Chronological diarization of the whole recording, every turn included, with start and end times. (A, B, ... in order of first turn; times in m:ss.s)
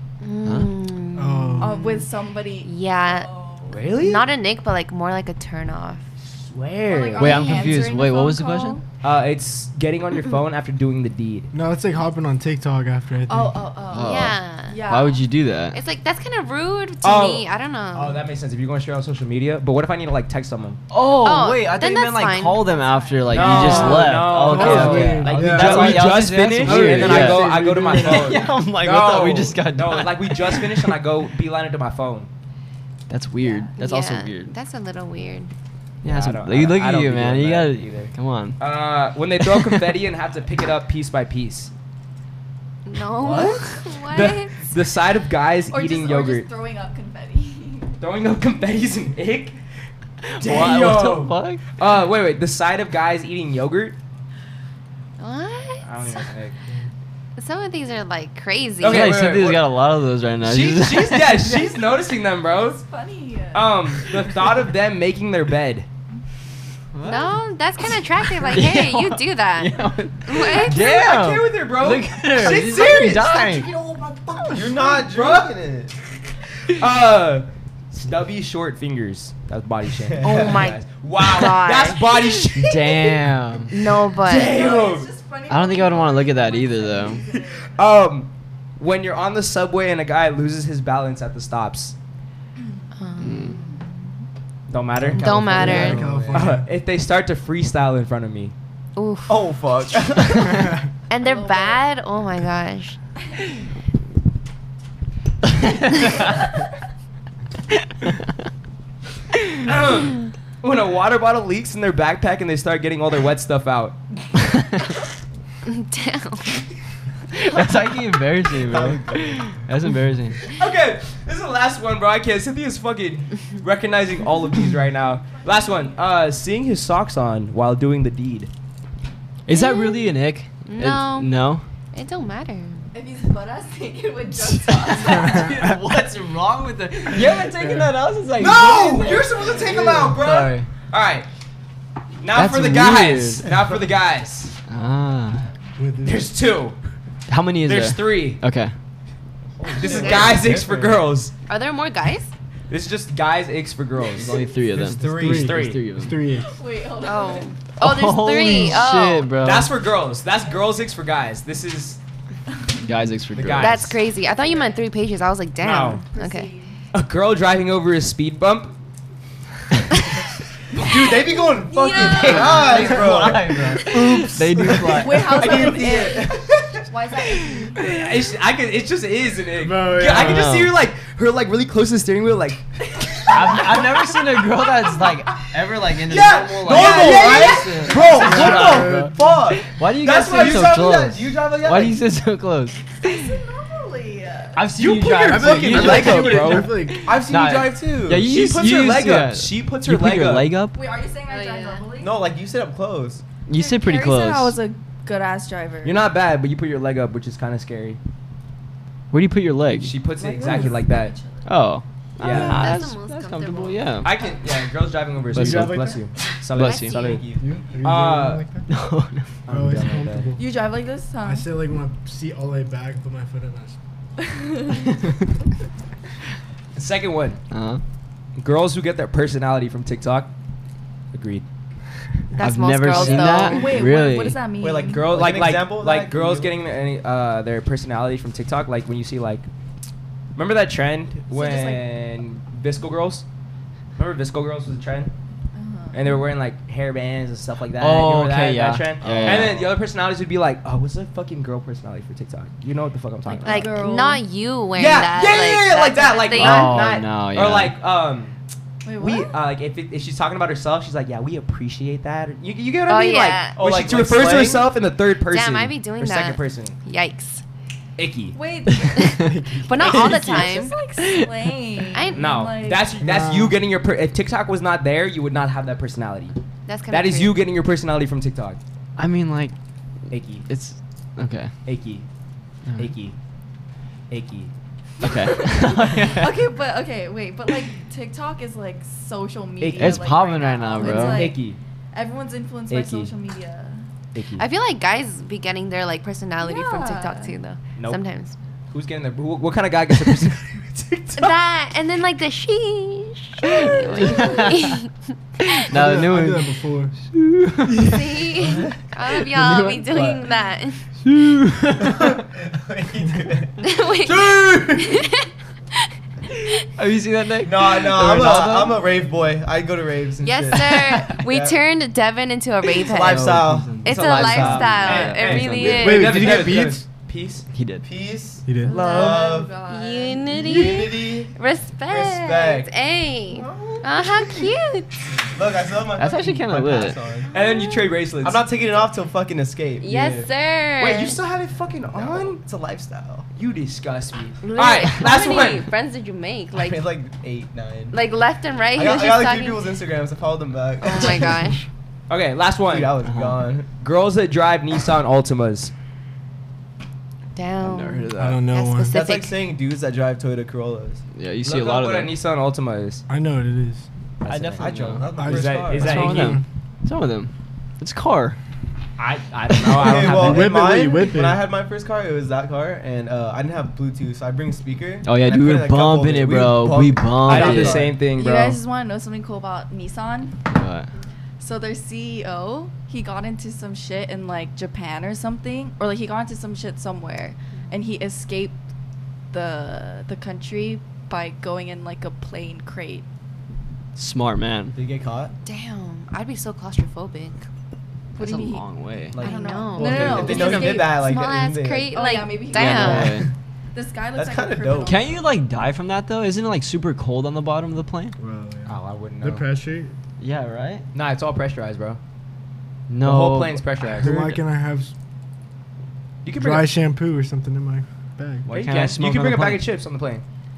0:00.2-0:02.1 A
0:00.4-0:00.7 B
0:01.2-0:01.8 C
0:01.6-0:04.0 D
0:02.6-0:03.3 A
0:03.7-0:04.2 E
0:04.0-0:06.0 A
0:06.2-0:07.8 E
0:06.8-0:08.8 D
0:07.2-0:08.8 B
0:09.0-0:11.5 E
0:11.5-0:13.6 C
0:13.3-0:15.3 D
0:13.9-0:15.8 B
0:13.9-0:14.8 A
0:15.7-0:18.2 A
0:17.0-0:20.8 E
0:20.9-0:31.0 B
0:21.2-0:22.7 A
0:22.6-0:24.0 D
0:23.3-0:32.3 E
0:23.5-0:24.0 A
0:24.3-0:28.5 C
0:33.1-0:34.6 B
0:33.4-0:33.7 D
0:33.7-0:35.5 A
0:36.0-0:38.6 B
0:36.0-0:41.7 E
0:39.4-0:39.9 B
0:42.8-0:44.5 A
0:43.2-0:46.5 E
0:45.7-0:47.9 D
0:48.0-0:49.6 E
0:50.2-0:51.6 B
0:50.4-0:54.0 E
0:55.2-0:56.3 A
0:55.8-0:56.6 E
0:57.4-0:59.2 A
0:58.8-0:59.7 E
0:58.8-1:01.7 B
1:00.4-1:02.8 E
1:02.5-1:03.8 D
1:03.5-1:05.9 E
1:06.9-1:07.4 B
1:07.0-1:10.8 A
1:08.3-1:13.7 B
1:10.6-1:15.5 E
1:14.4-1:15.9 F
1:16.7-1:23.2 E
1:20.1-1:20.7 F
1:20.2-1:22.1 A
1:22.5-1:23.8 B
1:23.7-1:24.6 A
1:24.1-1:25.1 E
1:24.3-1:27.8 D
1:25.5-1:27.2 B
1:27.7-1:32.0 E
1:32.9-1:33.9 A
1:33.2-1:33.6 B
1:34.7-1:38.5 E
1:35.0-1:36.7 C
1:35.1-1:36.0 A
1:35.3-1:36.5 F
1:39.0-1:39.5 A
1:39.3-1:40.8 F
1:41.1-1:43.0 A
1:41.2-1:41.8 D
1:45.9-1:46.2 B
1:49.6-1:54.0 E
1:55.6-1:56.6 A
1:57.3-2:00.4 B
1:58.5-1:59.6 F
2:00.5-2:08.5 E
2:05.4-2:05.9 D
2:09.5-2:11.6 B
2:09.5-2:11.4 A
2:11.9-2:12.9 A
2:12.9-2:15.6 D
2:14.6-2:20.7 B
2:17.6-2:17.9 C
2:18.4-2:21.3 E
2:22.2-2:24.5 E
2:22.3-2:23.5 B
2:24.7-2:25.5 B
2:25.8-2:26.3 C
2:26.0-2:26.8 E
2:27.3-2:28.7 B
2:27.6-2:28.4 E
2:29.6-2:31.0 F
2:29.8-2:31.3 E
2:29.8-2:30.4 A
2:31.5-2:32.3 A
2:32.7-2:34.4 E
2:34.1-2:36.2 B
2:34.7-2:35.6 F
2:35.0-2:36.6 C
2:35.2-2:35.8 E
2:36.3-2:37.6 D
2:37.0-2:39.3 A
2:37.7-2:39.7 B
2:39.4-2:42.0 E
2:42.8-2:43.9 B
2:43.3-2:43.9 E
2:43.6-2:46.5 A
2:44.2-2:44.8 D
2:45.6-2:46.0 E
2:46.0-2:46.8 D
2:46.9-2:48.7 E
2:50.7-2:56.4 F
2:51.2-2:53.0 D
2:52.1-2:55.6 B
2:54.8-2:58.2 D
2:55.4-2:56.6 E
2:57.8-3:03.9 E
2:59.6-3:00.5 C
3:00.1-3:00.8 B
3:03.3-3:13.1 B
3:03.4-3:03.8 F
3:04.6-3:05.2 D
3:05.5-3:12.0 F
3:06.1-3:08.8 E
3:08.2-3:09.3 C
3:10.0-3:11.0 E
3:13.0-3:14.7 D
3:14.6-3:20.8 B
3:14.8-3:16.7 E
3:15.3-3:17.1 C
3:17.0-3:18.3 F
3:18.2-3:20.5 E
3:20.7-3:22.2 D
3:21.3-3:21.9 A
3:22.0-3:23.2 F
3:23.5-3:24.6 B
3:23.5-3:26.0 D
3:25.8-3:28.0 E
3:29.1-3:30.0 B
3:29.8-3:31.2 E
3:30.2-3:31.5 D
3:30.4-3:30.8 C
3:31.4-3:34.1 B
3:32.2-3:32.8 E
3:32.2-3:33.9 A
3:34.0-3:37.2 E
3:35.3-3:35.8 B
3:35.3-3:36.1 C
3:36.5-3:37.2 B
3:36.6-3:37.2 A
3:36.9-3:37.7 F
3:37.4-3:38.7 C
3:37.8-3:38.4 E
3:38.7-3:39.4 B
3:39.4-3:40.3 E
3:39.5-3:40.4 C
3:40.4-3:41.5 D
3:41.2-3:43.8 C
3:44.2-3:44.9 D
3:46.7-3:47.4 E
3:47.5-3:47.8 B
3:48.4-3:50.3 E
3:51.1-3:51.4 E
3:52.4-3:53.8 A
3:52.4-3:54.4 B
3:53.4-3:55.1 D
3:54.6-3:56.5 F
3:54.8-3:59.5 E
4:00.4-4:03.2 E
4:01.3-4:01.9 D
4:04.0-4:05.1 E
4:05.5-4:06.3 D
4:05.9-4:13.7 E
4:07.8-4:09.7 B
4:09.0-4:09.7 F
4:13.2-4:14.2 D
4:13.4-4:16.8 A
4:14.8-4:18.4 E
4:16.3-4:17.8 B
4:18.8-4:19.4 D
4:19.0-4:26.8 E
4:22.9-4:23.6 A
4:23.6-4:24.7 F
4:25.2-4:27.4 A
4:28.0-4:28.4 E
4:28.3-4:33.0 D
4:28.7-4:31.3 B
4:29.0-4:30.7 A
4:29.3-4:29.6 C
4:31.9-4:32.2 A
4:32.1-4:36.3 E
4:33.0-4:33.6 C
4:36.7-4:37.4 A
4:36.9-4:38.6 E
4:39.0-4:39.5 B
4:40.1-4:40.5 E
4:40.5-4:41.5 B
4:41.6-4:42.0 E
4:42.6-4:42.9 B
4:42.8-4:43.2 E
4:44.1-4:44.5 E
4:45.0-4:46.3 B
4:45.2-4:53.9 D
4:49.6-4:50.1 E
4:49.8-4:51.3 B
4:50.8-4:51.6 E
4:52.7-4:53.1 E
4:54.1-4:54.4 E
4:54.4-4:58.3 A
4:56.4-4:57.3 D
4:58.7-5:01.4 E
5:01.1-5:04.9 A
5:03.6-5:04.8 B
5:05.5-5:06.5 B
5:05.7-5:06.9 C
5:07.0-5:08.6 B
5:07.8-5:10.8 A
5:08.4-5:08.7 F
5:09.2-5:10.2 B
5:11.0-5:12.2 B
5:11.9-5:15.0 F
5:13.6-5:15.3 A
5:16.8-5:18.9 B
5:17.4-5:21.6 F
5:20.2-5:23.3 A
5:22.8-5:25.4 F
5:23.0-5:27.5 E
5:23.2-5:26.2 B
5:23.8-5:26.1 A
5:25.6-5:26.8 C
5:27.5-5:27.8 B
5:27.8-5:29.5 F
5:28.4-5:28.7 C
5:28.6-5:30.4 D
5:28.7-5:34.9 A
5:30.4-5:31.3 F
5:31.9-5:32.7 F
5:33.3-5:34.5 F
5:35.2-5:37.3 F
5:36.0-5:37.0 B
5:37.3-5:37.8 A
5:37.3-5:38.4 E
5:38.2-5:40.3 F
5:39.8-5:41.2 A
5:40.8-5:42.4 E
5:41.9-5:43.3 F
5:43.4-5:45.7 E
5:44.4-5:46.8 A
5:46.5-5:48.0 F
5:47.9-5:49.7 A
5:48.7-5:51.6 F
5:50.8-5:51.6 A
5:52.1-5:52.9 E
5:52.7-5:53.7 F
5:53.0-5:53.4 B
5:53.7-5:55.7 E
5:57.3-5:59.4 A
5:57.6-5:58.4 B
5:58.2-5:58.9 C
5:58.9-6:01.0 F
6:01.1-6:02.1 B
6:01.4-6:03.0 E
6:03.1-6:03.8 C
6:04.2-6:06.4 E
6:04.3-6:06.2 F
6:04.6-6:05.1 B
6:05.2-6:06.4 C
6:05.9-6:08.4 B
6:09.0-6:10.7 E
6:09.5-6:10.0 B
6:09.7-6:18.0 F
6:10.0-6:11.4 C
6:15.0-6:17.9 B
6:17.2-6:18.6 E
6:18.1-6:20.4 D
6:20.5-6:20.9 B
6:21.4-6:28.6 D
6:29.3-6:33.0 D
6:33.9-6:34.8 B
6:34.7-6:35.3 F
6:35.4-6:37.4 A
6:38.1-6:41.3 D
6:38.2-6:39.2 B
6:39.1-6:41.9 F
6:39.2-6:43.2 A
6:41.9-6:43.2 D
6:42.5-6:43.3 B
6:42.8-6:43.3 F
6:43.7-6:45.2 D
6:44.1-6:45.0 F
6:44.8-6:48.1 B
6:48.2-6:49.9 C
6:48.6-6:49.4 E
6:50.2-6:50.8 B
6:50.9-6:52.0 E
6:52.9-6:54.4 B
6:53.0-6:54.2 E
6:53.9-6:54.9 C
6:56.2-6:56.7 E
6:56.3-6:58.5 C
6:58.4-6:59.7 B
6:58.5-7:00.2 E